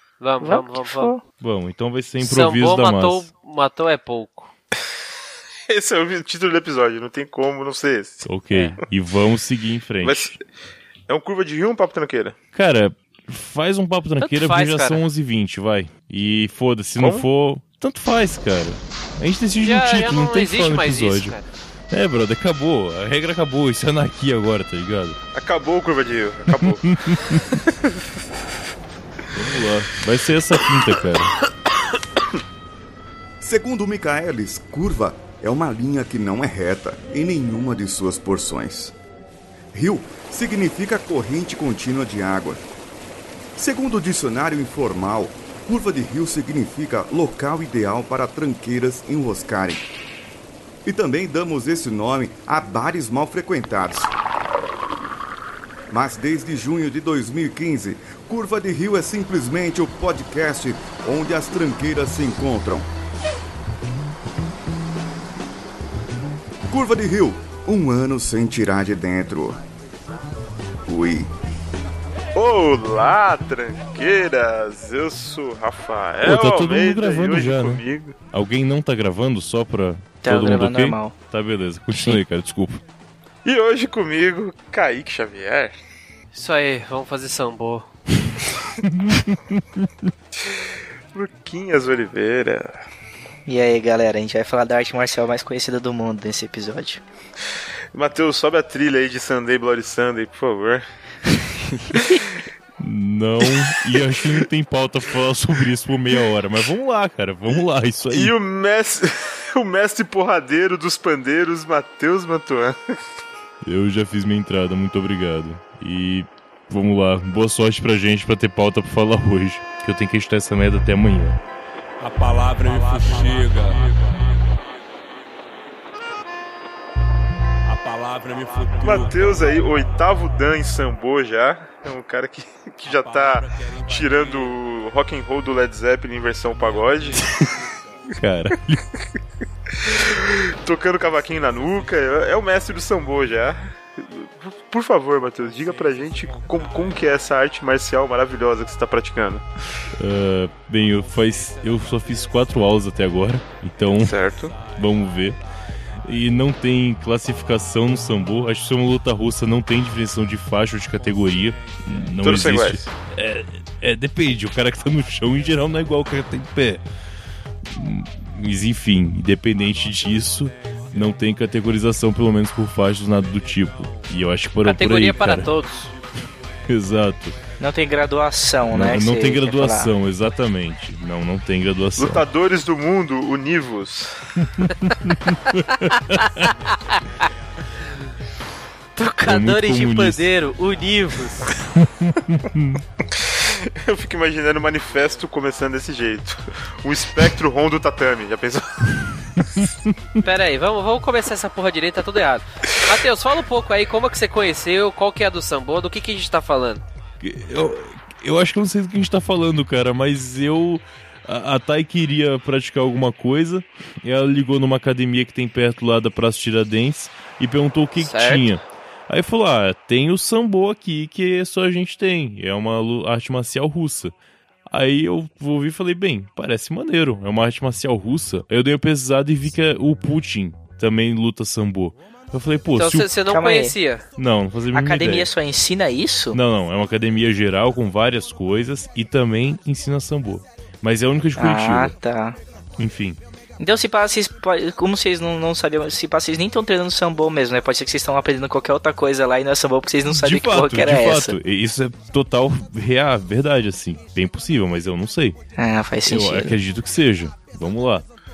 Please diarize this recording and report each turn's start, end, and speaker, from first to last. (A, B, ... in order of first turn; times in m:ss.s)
0:00.2-0:01.1 A
0:00.4-0:01.2 B
0:01.4-0:03.3 C
0:02.2-0:04.5 A
0:05.7-0:08.3 D
0:08.2-0:10.4 C
0:10.0-0:10.4 D
0:11.1-0:12.3 D
0:12.5-0:21.3 C
0:14.2-0:15.0 A
0:17.0-0:17.2 D
0:19.6-0:21.5 A
0:21.9-0:25.2 C
0:25.3-0:27.9 D
0:26.6-0:27.4 C
0:29.3-0:31.3 C
0:33.4-0:38.9 E
0:39.7-0:42.6 E
0:43.6-0:49.8 E
0:50.8-0:54.1 E
0:55.9-1:02.9 E
1:06.7-1:09.6 E
1:10.8-1:11.3 E
1:12.3-1:18.2 D
1:16.2-1:22.8 C
1:20.2-1:21.1 B
1:21.9-1:22.2 B
1:23.4-1:25.8 D
1:26.3-1:27.9 A
1:28.8-1:30.1 C
1:30.4-1:32.8 D
1:33.4-1:37.0 B
1:37.9-1:40.8 D
1:42.8-1:48.3 C
1:48.1-1:52.8 D
1:53.6-2:01.4 C
2:02.0-2:04.3 F
2:07.6-2:09.5 F
2:08.8-2:17.3 D
2:12.9-2:14.5 F
2:18.1-2:18.8 C
2:19.8-2:29.4 D
2:29.9-2:35.4 C
2:33.9-2:34.6 D
2:36.0-2:46.8 C
2:42.2-2:42.9 D
2:47.7-2:55.5 C
2:54.6-2:55.9 A
2:56.7-2:57.4 C
2:57.6-2:59.9 B
2:58.7-3:02.2 C
3:02.0-3:04.2 D
3:04.6-3:06.6 C
3:09.0-3:11.5 A
3:09.2-3:10.2 C
3:12.0-3:12.8 C
3:13.2-3:19.0 D
3:19.4-3:19.9 C
3:20.2-3:26.8 A
3:27.2-3:44.1 C
3:38.0-3:38.6 A
3:44.7-3:53.1 C
3:52.8-3:54.0 A
3:53.3-3:53.7 B
3:54.2-3:55.3 C
3:54.7-3:56.4 B
3:56.3-4:01.9 C
4:01.4-4:02.4 B
4:02.8-4:03.2 C
4:03.6-4:11.4 B
4:10.1-4:15.4 C
4:15.6-4:16.6 B
4:16.1-4:18.1 C